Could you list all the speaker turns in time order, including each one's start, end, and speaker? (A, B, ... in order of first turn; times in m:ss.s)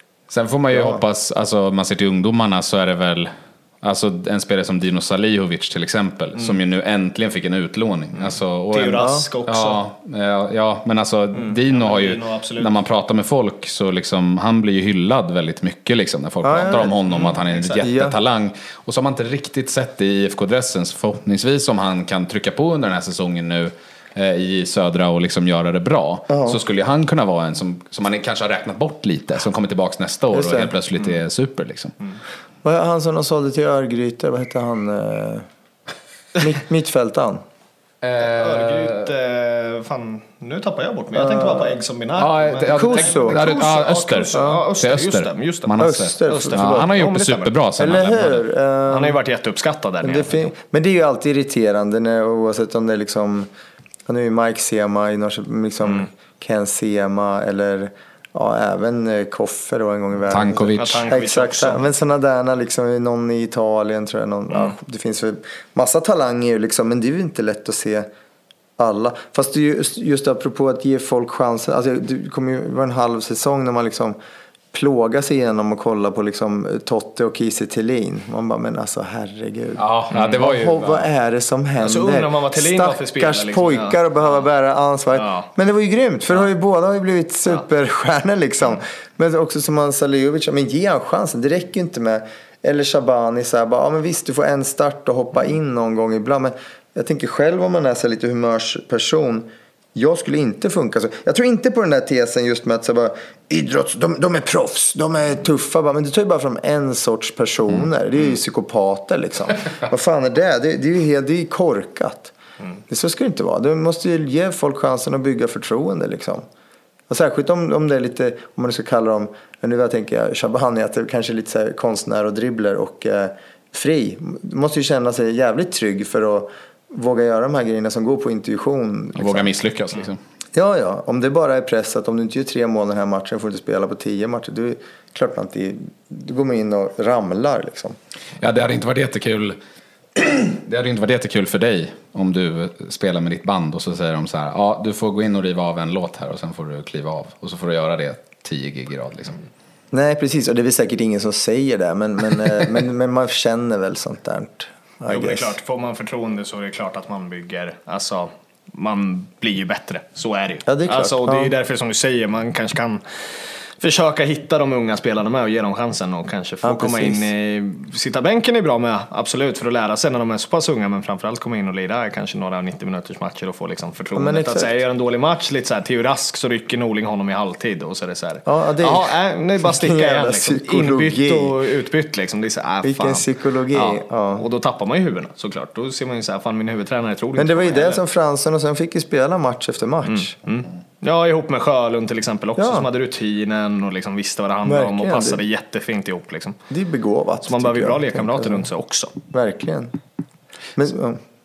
0:00.3-0:03.3 A
0:00.7-0:01.0 B
0:03.8-0:31.9 A
0:08.2-0:09.8 C
0:09.0-0:09.2 B
0:11.3-0:12.7 C
0:16.4-0:18.2 B
0:17.1-0:17.8 C
0:26.3-0:26.6 B
0:30.3-0:30.7 B
0:32.6-0:35.5 B
0:36.4-0:37.4 B
0:38.0-0:39.1 A
0:38.2-0:45.7 C
0:41.1-0:41.8 B
0:42.2-0:48.4 A
0:42.7-0:43.5 B
0:44.3-0:44.6 B
0:45.8-0:46.9 B
0:46.2-0:47.5 C
0:47.8-0:49.2 B
0:48.9-0:50.5 C
0:50.0-0:53.5 B
0:54.1-1:08.1 B
1:00.3-1:01.0 A
1:00.8-1:01.8 C
1:08.8-1:14.2 B
1:14.7-1:52.3 B
1:19.8-1:21.1 A
1:20.1-1:20.4 C
1:21.8-1:24.0 C
1:25.1-1:25.5 C
1:52.9-1:56.4 B
1:57.1-2:09.5 B
2:09.2-2:10.2 A
2:10.5-2:18.0 B
2:18.4-2:19.6 A
2:20.2-2:29.4 A
2:29.9-2:35.6 B
2:35.1-3:08.0 C
2:40.6-2:41.5 B
2:46.6-2:47.3 B
2:54.1-2:54.8 B
2:58.4-3:01.6 B
3:02.8-3:04.4 B
3:07.4-3:10.3 B
3:10.0-3:16.6 C
3:12.6-3:12.9 B
3:14.6-3:15.4 B
3:16.7-3:18.7 B
3:17.4-3:19.1 C
3:19.3-3:20.0 B
3:20.8-3:21.2 B